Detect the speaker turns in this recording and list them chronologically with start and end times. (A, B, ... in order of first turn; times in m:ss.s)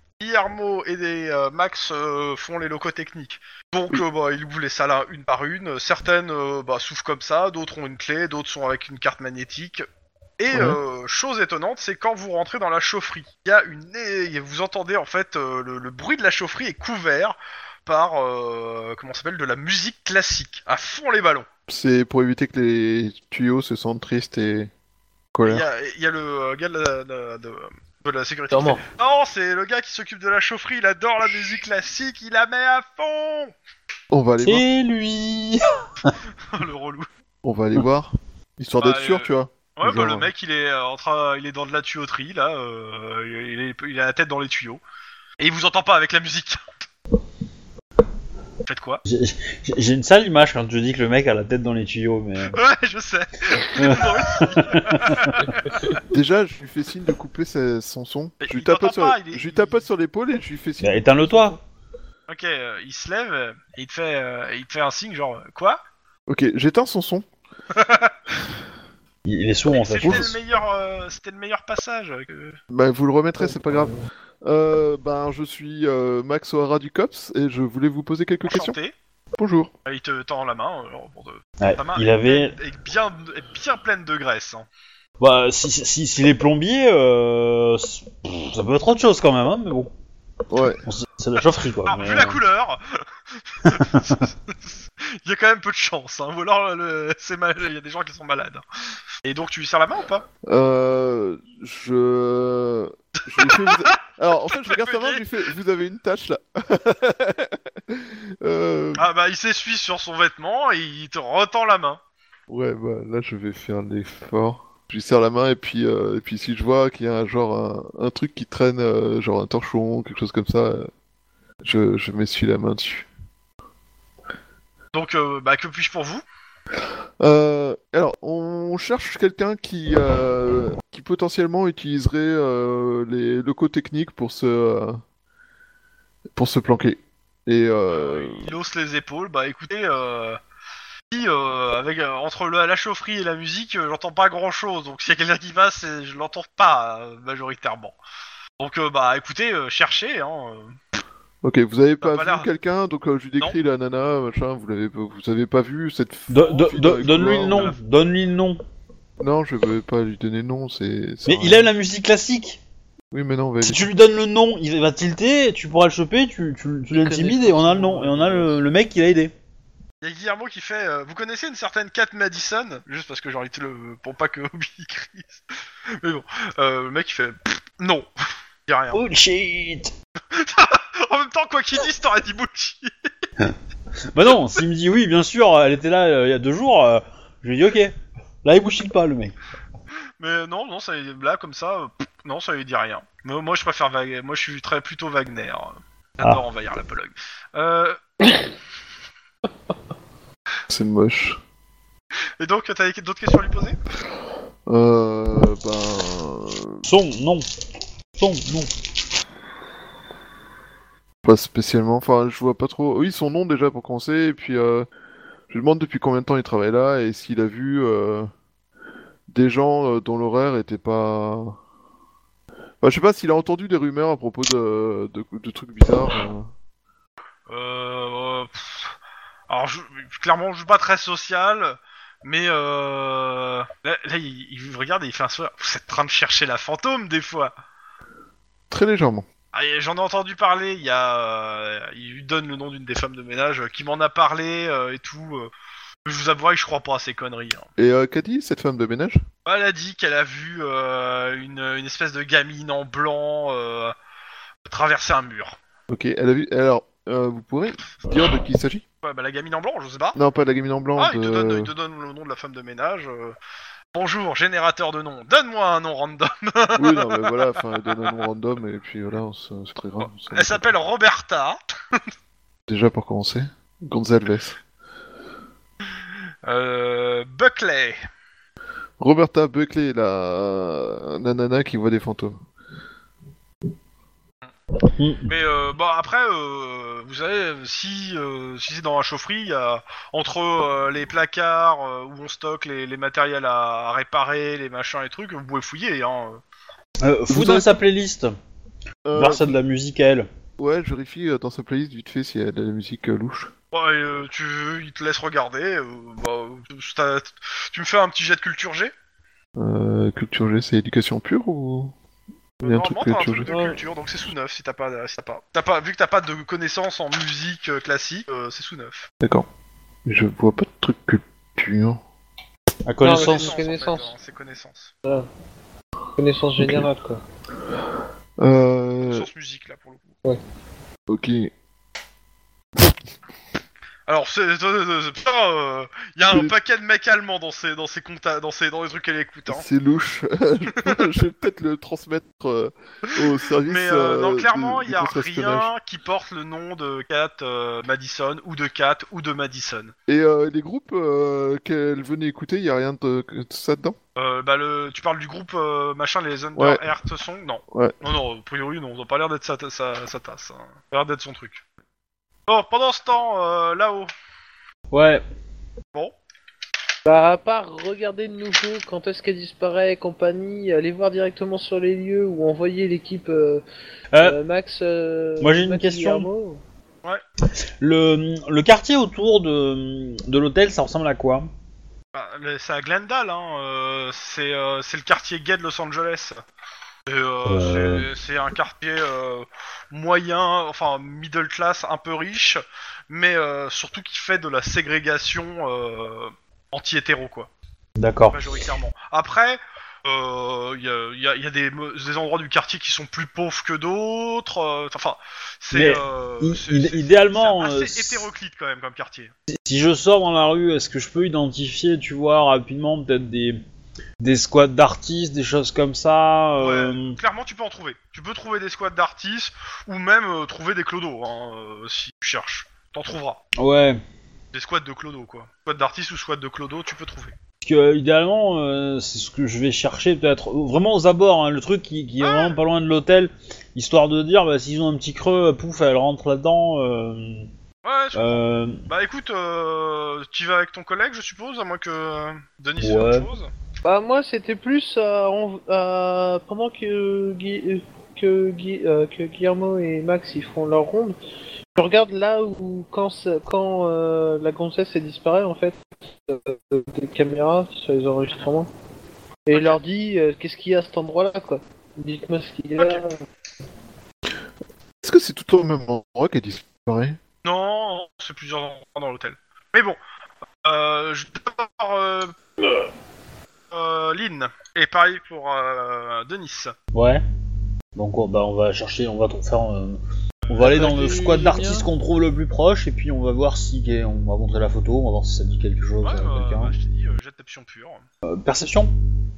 0:00.2-0:09.9 A
0:10.4-0:21.5 A
0:10.5-0:10.8 B
0:21.7-0:24.7 B
0:25.3-0:25.7 B
0:25.4-0:33.5 A
0:28.5-0:28.8 C
0:34.1-0:34.6 B
0:34.4-0:36.2 D
0:36.4-0:37.1 A
0:37.4-0:40.3 B
0:38.8-0:44.8 A
0:45.4-0:46.6 A
0:48.7-0:49.0 A
0:49.1-0:52.6 D
0:52.5-0:56.0 A
0:53.6-0:55.4 D
0:56.1-1:01.6 B
0:58.4-0:59.8 A
1:00.8-1:01.6 D
1:02.3-1:05.8 A
1:06.3-1:07.3 B
1:07.7-1:08.1 A
1:09.2-1:10.4 D
1:09.7-1:12.6 A
1:10.0-1:10.3 B
1:12.7-1:18.8 B
1:18.4-1:18.9 A
1:19.4-1:19.7 B
1:19.9-1:24.7 A
1:21.6-1:22.6 D
1:25.2-1:29.9 D
1:30.5-1:30.8 B
1:30.8-1:32.4 D
1:31.9-1:38.6 A
1:33.6-1:34.3 D
1:39.2-1:40.3 A
1:40.5-1:49.1 B
1:43.3-1:44.0 A
1:44.5-1:45.2 A
1:49.0-1:52.0 A
1:52.5-2:00.9 B
2:01.6-2:03.1 B
2:04.9-2:06.2 A
2:07.2-2:15.0 B
2:16.4-2:18.5 B
2:17.9-2:20.4 A
2:21.1-2:28.0 A
2:28.6-2:30.8 A
2:31.4-2:37.7 B
2:32.0-2:32.5 A
2:36.3-2:38.6 D
2:36.4-2:37.8 A
2:39.2-2:41.7 B
2:41.3-2:42.6 D
2:43.1-2:43.9 B
2:43.6-2:49.3 D
2:46.9-2:48.6 C
2:50.0-2:55.4 A
2:56.0-2:58.1 A
2:58.7-2:59.0 A
2:58.9-2:59.9 D
3:00.3-3:03.3 A
3:04.1-3:09.3 D
3:10.2-3:18.0 A
3:20.7-3:21.4 B
3:22.4-3:23.8 A
3:24.7-3:26.8 B
3:26.8-3:27.5 D
3:28.2-3:28.7 D
3:31.2-3:34.9 B
3:35.5-3:38.3 B
3:39.3-3:41.6 B
3:42.8-3:46.5 B
3:47.5-3:49.0 A
3:49.5-3:57.5 A
3:58.7-3:59.3 B
3:59.5-4:05.5 A
4:06.0-4:07.7 A
4:07.8-4:09.2 B
4:09.5-4:14.0 A
4:14.7-4:15.6 A
4:15.9-4:18.8 B
4:19.0-4:20.2 A
4:20.2-4:21.7 B
4:21.0-4:23.4 A
4:23.9-4:28.2 A
4:26.8-4:30.7 B
4:30.0-4:32.0 A
4:32.7-4:34.6 B
4:36.4-4:38.0 A
4:39.0-4:42.4 B
4:44.9-4:45.3 D
4:45.3-4:56.4 A
4:57.0-4:58.4 D
4:57.3-4:57.8 B
4:59.0-4:59.6 B
4:59.2-5:00.3 D
5:00.6-5:03.5 B
5:03.7-5:08.9 A
5:09.6-5:11.9 B
5:12.6-5:13.5 B
5:12.6-5:19.1 A
5:13.5-5:13.8 C
5:19.2-5:19.5 B
5:20.1-5:22.0 B
5:22.9-5:23.6 D
5:23.0-5:24.1 C
5:23.1-5:24.9 A
5:26.2-5:27.2 C
5:26.6-5:26.8 B
5:28.4-5:29.3 B
5:29.1-5:30.2 A
5:31.1-5:31.5 B
5:34.1-5:39.7 A
5:36.3-5:36.6 B
5:39.5-5:45.7 B
5:40.8-5:41.1 A
5:43.6-5:49.9 A
5:50.1-5:54.0 B
5:54.2-6:01.6 A
5:56.6-5:56.8 B
6:02.5-6:04.1 A
6:04.9-6:05.2 D
6:07.1-6:13.6 C
6:14.1-6:14.4 D
6:14.2-6:16.6 C
6:15.4-6:16.3 D
6:17.8-6:21.5 D
6:22.1-6:26.4 A
6:27.1-6:37.5 A
6:27.5-6:28.1 D
6:38.0-6:38.5 D
6:38.3-6:49.3 A
6:45.7-6:48.3 D
6:49.5-6:53.6 D
6:54.2-6:57.2 D
6:56.6-7:03.4 A
7:03.6-7:04.0 D
7:04.5-7:07.3 A
7:07.6-7:17.5 D
7:12.2-7:12.6 A
7:17.8-7:23.5 A
7:18.2-7:18.8 D
7:22.8-7:23.3 D
7:23.8-7:31.2 C
7:31.8-7:38.7 C
7:39.5-7:43.2 C
7:39.5-7:39.8 A
7:45.0-7:47.2 B
7:47.4-7:50.0 A
7:50.6-7:52.4 A
7:53.7-7:56.7 A
7:56.9-7:57.2 D
7:58.0-8:06.7 D
8:00.4-8:01.2 A
8:00.6-8:01.9 C
8:06.0-8:08.0 A
8:08.2-8:08.9 D